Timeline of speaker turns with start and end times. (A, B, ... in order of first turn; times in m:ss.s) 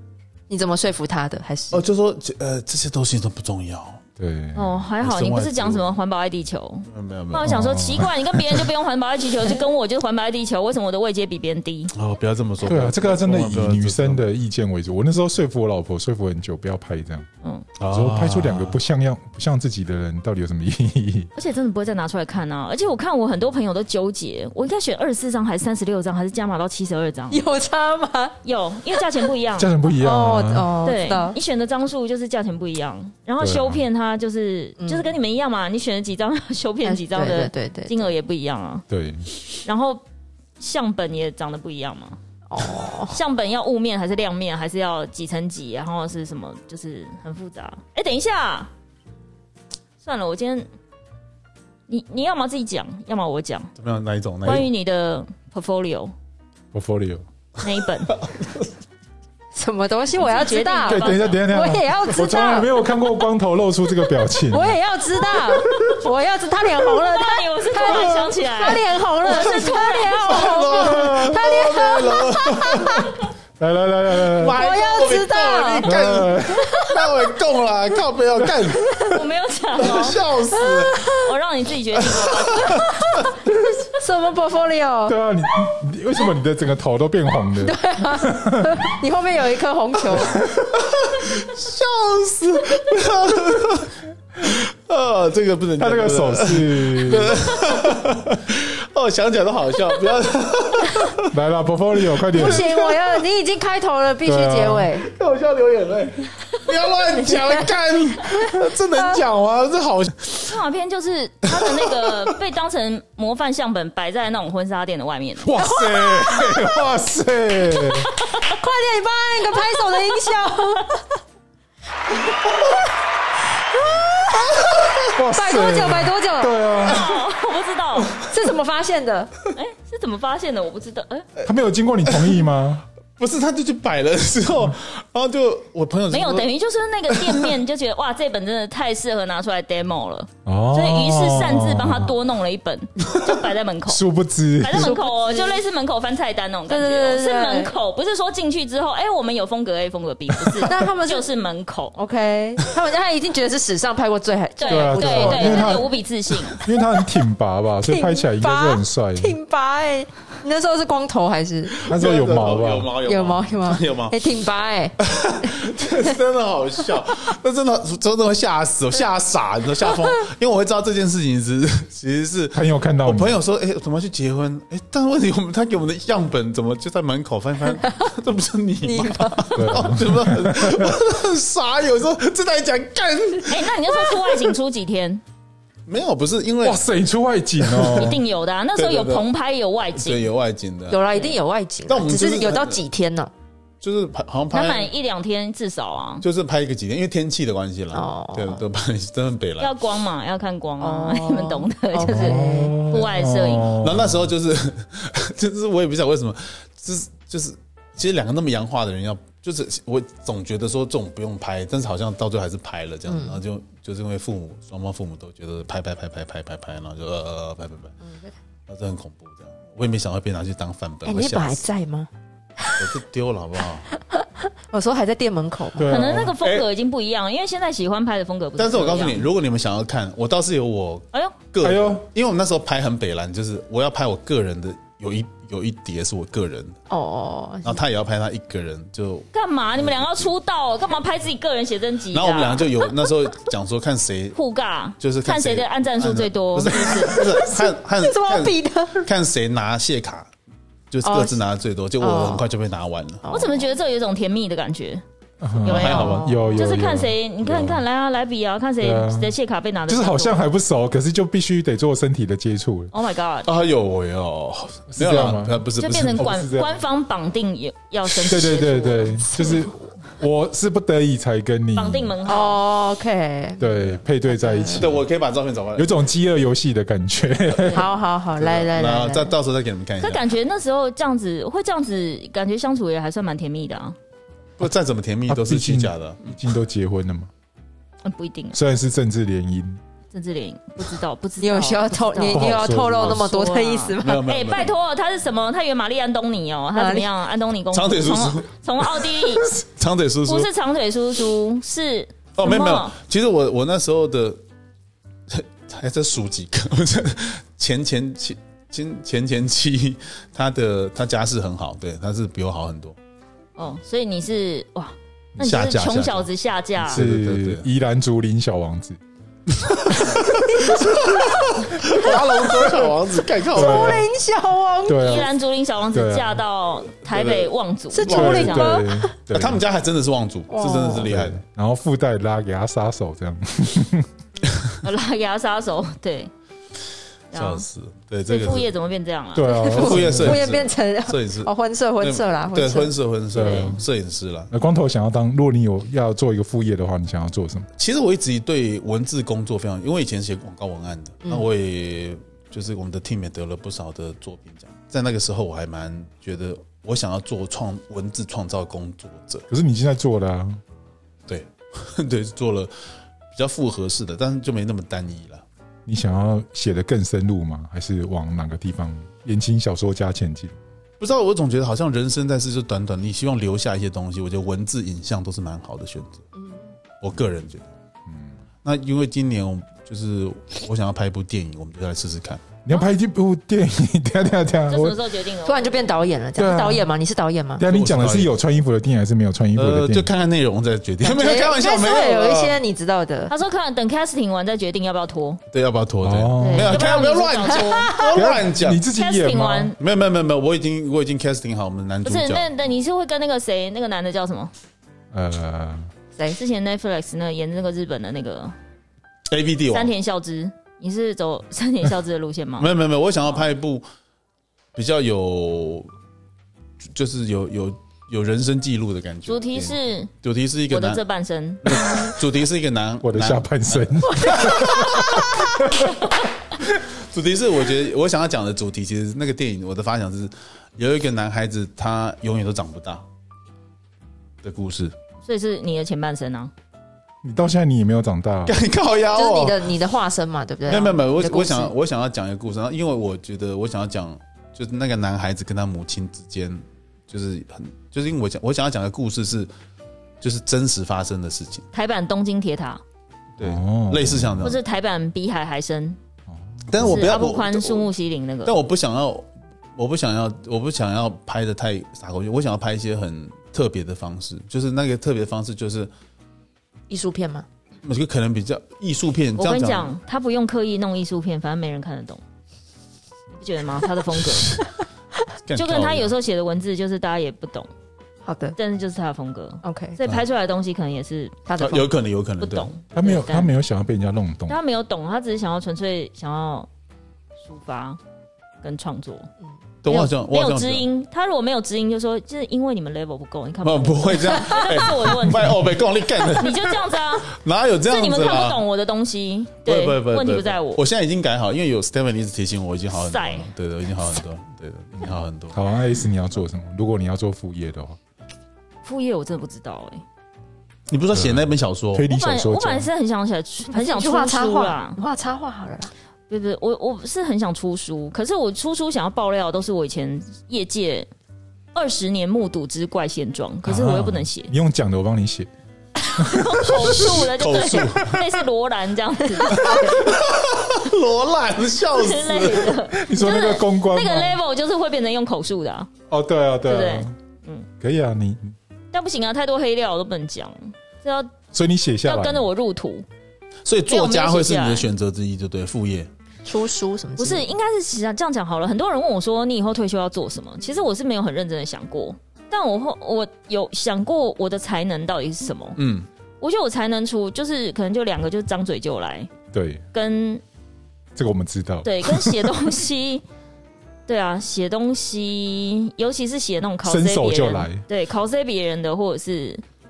0:00.5-0:01.8 A
0:01.7-0:04.0 B
0:04.2-0:04.8 C
0:04.6-0:11.9 D
0:05.0-0:05.9 B
0:06.9-0:07.5 B
0:07.4-0:08.7 C
0:11.9-0:14.2 B
0:12.6-0:17.3 C
0:17.8-0:18.8 B
0:17.9-0:21.3 C
0:21.4-0:27.4 D
0:27.3-0:28.4 A
0:28.4-0:29.7 D
0:29.6-0:30.7 C
0:30.0-0:31.4 A
0:30.8-0:38.8 D
0:33.4-0:33.8 C
0:34.8-0:35.1 A
0:36.8-0:38.1 A
0:38.9-0:39.2 C
0:39.6-0:40.0 D
0:40.6-0:42.2 D
0:42.5-0:43.2 A
0:43.1-0:48.7 D
0:50.0-0:50.7 D
0:51.9-0:53.7 D
0:53.8-0:54.7 B
0:54.4-0:56.1 D
0:56.7-0:57.2 C
0:57.6-0:58.2 D
0:58.1-0:58.7 B
0:59.5-1:02.9 A
1:00.2-1:01.4 D
1:00.9-1:04.8 C
1:04.5-1:13.1 A
1:07.1-1:10.6 D
1:07.9-1:08.3 C
1:10.1-1:13.1 B
1:10.7-1:11.4 C
1:13.6-1:14.6 C
1:14.3-1:18.9 B
1:14.5-1:15.9 A
1:15.8-1:16.8 C
1:16.5-1:17.3 A
1:18.9-1:19.2 A
1:19.1-1:20.2 D
1:19.8-1:21.0 B
1:20.6-1:21.3 A
1:21.1-1:23.0 D
1:22.0-1:23.3 B
1:22.6-1:25.2 A
1:25.1-1:28.9 C
1:27.6-1:30.4 A
1:30.1-1:30.6 C
1:30.7-1:41.3 B
1:35.8-1:37.4 C
1:41.3-1:42.7 C
1:42.1-1:43.2 B
1:42.3-1:45.1 A
1:44.2-1:44.9 C
1:45.0-1:50.6 B
1:47.2-1:47.7 A
1:48.3-1:49.2 A
1:50.5-1:55.6 D
1:51.6-1:52.3 B
1:55.4-1:58.1 C
1:55.6-1:56.9 A
1:57.8-2:01.2 A
2:03.7-2:06.6 A
2:05.1-2:07.0 C
2:06.8-2:08.2 D
2:08.2-2:09.4 A
2:09.5-2:11.3 D
2:11.4-2:12.8 C
2:12.0-2:12.4 B
2:13.2-2:16.5 B
2:16.1-2:24.0 D
2:17.1-2:17.5 B
2:20.4-2:22.1 C
2:23.9-2:25.0 C
2:24.6-2:32.0 D
2:24.7-2:25.6 A
2:26.7-2:27.8 A
2:30.6-2:31.3 A
2:32.0-2:35.9 A
2:34.6-2:36.6 D
2:34.7-2:35.9 C
2:36.6-2:39.4 C
2:36.6-2:37.1 A
2:37.8-2:41.9 A
2:41.8-2:44.2 B
2:41.9-2:42.9 C
2:43.0-2:45.5 A
2:45.0-3:04.0 B
2:52.5-2:53.4 C
2:58.8-2:59.8 A
2:59.6-3:01.0 C
3:03.5-3:05.2 D
3:05.9-3:06.8 B
3:06.6-3:08.2 C
3:07.6-3:08.2 B
3:07.9-3:10.3 D
3:08.8-3:09.3 B
3:09.9-3:11.1 B
3:10.9-3:13.3 A
3:11.9-3:12.8 B
3:13.8-3:14.9 B
3:14.5-3:16.2 D
3:16.2-3:19.8 B
3:17.9-3:18.6 A
3:19.6-3:23.8 D
3:20.8-3:22.8 A
3:22.0-3:24.3 C
3:23.8-3:37.9 B
3:33.1-3:33.4 A
3:38.0-3:38.3 A
3:38.7-3:41.6 B
3:41.0-3:42.1 A
3:42.8-3:43.9 B
3:44.0-3:45.9 A
3:45.8-3:46.4 C
3:45.9-3:49.2 D
3:46.4-3:46.6 B
3:48.6-3:56.8 B
3:51.6-3:52.1 C
3:56.9-3:57.8 A
3:57.6-4:00.3 B
3:59.3-4:02.7 D
4:02.1-4:04.4 B
4:04.3-4:07.2 D
4:05.0-4:10.3 B
4:06.8-4:09.1 A
4:10.9-4:13.2 B
4:11.0-4:11.4 A
4:12.0-4:12.5 A
4:13.2-4:13.7 A
4:13.3-4:15.0 D
4:15.4-4:17.8 C
4:15.6-4:20.4 D
4:15.6-4:16.4 B
4:15.8-4:16.6 A
4:18.8-4:19.3 C
4:19.9-4:22.9 C
4:22.9-4:23.5 D
4:23.4-4:26.4 B
4:24.9-4:26.8 C
4:25.8-4:29.6 D
4:28.2-4:32.2 C
4:31.8-4:32.6 D
4:32.2-4:33.8 A
4:33.6-4:35.1 C
4:34.3-4:34.9 A
4:34.8-4:35.9 B
4:35.8-4:37.9 C
4:37.7-4:39.3 A
4:38.4-4:40.3 B
4:40.0-4:44.0 D
4:44.6-4:46.4 B
4:45.3-4:47.3 C
4:48.0-4:48.6 D
4:48.5-4:49.8 C
4:50.1-4:59.5 D
4:51.4-4:54.2 A
4:52.3-4:53.2 C
4:54.0-4:54.8 B
4:56.8-4:57.1 A
4:57.7-5:00.5 B
5:00.2-5:03.0 D
5:02.4-5:04.4 B
5:05.3-5:13.0 B
5:13.6-5:17.0 D
5:15.4-5:17.6 B
5:16.9-5:19.0 C
5:19.5-5:24.1 B
5:20.5-5:22.7 A
5:23.5-5:25.2 A
5:23.5-5:24.1 C
5:24.9-5:25.3 C
5:25.0-5:28.8 D
5:25.9-5:26.4 C
5:27.1-5:27.5 B
5:27.9-5:29.1 A
5:28.1-5:28.7 B
5:28.1-5:29.6 C
5:29.3-5:31.4 B
5:30.5-5:31.1 A
5:31.1-5:34.1 C
5:34.8-5:36.3 D
5:37.3-5:37.6 D
5:37.3-5:38.7 B
5:38.3-5:39.7 D
5:39.4-5:40.5 C
5:39.4-5:42.9 A
5:39.7-5:44.5 B
5:43.3-5:43.8 C
5:44.5-5:47.7 C
5:47.8-5:59.4 B
5:59.5-6:00.6 C
6:01.3-6:02.7 B
6:03.3-6:05.4 B
6:05.9-6:10.6 C
6:11.0-6:16.2 B
6:16.4-6:16.6 A
6:17.0-6:17.7 B
6:18.1-6:18.3 C
6:18.6-6:22.4 B
6:22.6-6:25.0 C
6:24.7-6:25.8 D
6:25.4-6:27.6 A
6:26.4-6:26.9 C
6:27.6-6:30.1 C
6:27.7-6:28.3 B
6:29.6-6:32.6 B
6:31.0-6:33.3 A
6:33.3-6:35.4 D
6:35.5-6:38.8 B
6:36.0-6:36.8 C
6:36.4-6:38.0 D
6:37.5-6:38.2 A
6:38.1-6:39.8 C
6:38.9-6:39.8 D
6:39.8-6:42.5 B
6:42.0-6:44.5 D
6:45.1-6:45.9 C
6:46.3-6:48.6 D
6:49.3-6:49.9 B
6:49.7-6:52.7 D
6:52.6-6:53.8 B
6:54.8-6:55.9 B
6:57.0-7:01.0 B
6:59.2-7:00.1 D
7:00.7-7:02.1 D
7:01.6-7:05.5 B
7:03.0-7:06.1 C
7:04.1-7:04.5 A
7:06.6-7:13.0 B
7:14.4-7:14.9 B
7:15.2-7:16.5 D
7:17.2-7:18.6 C
7:18.5-7:19.7 B
7:19.1-7:21.7 A
7:20.6-7:29.5 B
7:30.2-7:31.7 B
7:31.7-7:32.8 D
7:33.4-7:34.6 B
7:33.4-7:34.5 C
7:34.4-7:36.0 D
7:36.3-7:37.0 C
7:36.7-7:37.9 B
7:36.8-7:38.6 D
7:38.4-7:45.9 B
7:46.9-7:47.4 A
7:47.8-7:49.9 B
7:49.4-7:52.2 D
7:53.4-7:54.6 D
7:55.5-7:56.1 B
7:55.6-7:57.7 D
7:58.2-7:58.6 A
7:58.6-8:01.4 D
7:59.6-8:00.0 A
8:01.5-8:01.9 A
8:01.6-8:02.7 B
8:02.4-8:03.5 D
8:02.9-8:04.6 C
8:04.5-8:06.7 D
8:07.4-8:08.0 D
8:08.6-8:09.3 D
8:09.8-8:10.9 B
8:09.9-8:15.6 D
8:13.6-8:18.6 B
8:16.3-8:17.3 D
8:17.9-8:20.8 D
8:19.6-8:25.6 B
8:23.0-8:23.5 D
8:25.5-8:28.0 C
8:28.8-8:30.0 D
8:30.9-8:32.1 B
8:31.1-8:32.9 C
8:32.1-8:35.0 D
8:33.7-8:35.9 A
8:36.3-8:41.1 D
8:41.7-8:44.5 D
8:43.6-8:45.5 C
8:46.1-8:50.1 D
8:46.2-8:47.2 C
8:46.7-8:48.2 B
8:49.5-8:52.8 B
8:51.9-8:55.9 D
8:52.9-8:54.4 C
8:56.1-8:57.1 C
8:56.6-8:57.7 D
8:57.8-8:58.6 C
8:58.9-9:01.4 D
9:01.5-9:02.5 C
9:02.1-9:03.1 D
9:03.6-9:06.1 B
9:03.9-9:04.9 D
9:06.4-9:07.5 A
9:07.2-9:15.8 D
9:15.8-9:16.1 B
9:16.4-9:19.3 D
9:19.5-9:19.8 C
9:19.9-9:20.4 D
9:21.1-9:22.5 C
9:21.8-9:23.2 D
9:24.1-9:29.6 D
9:26.8-9:27.8 C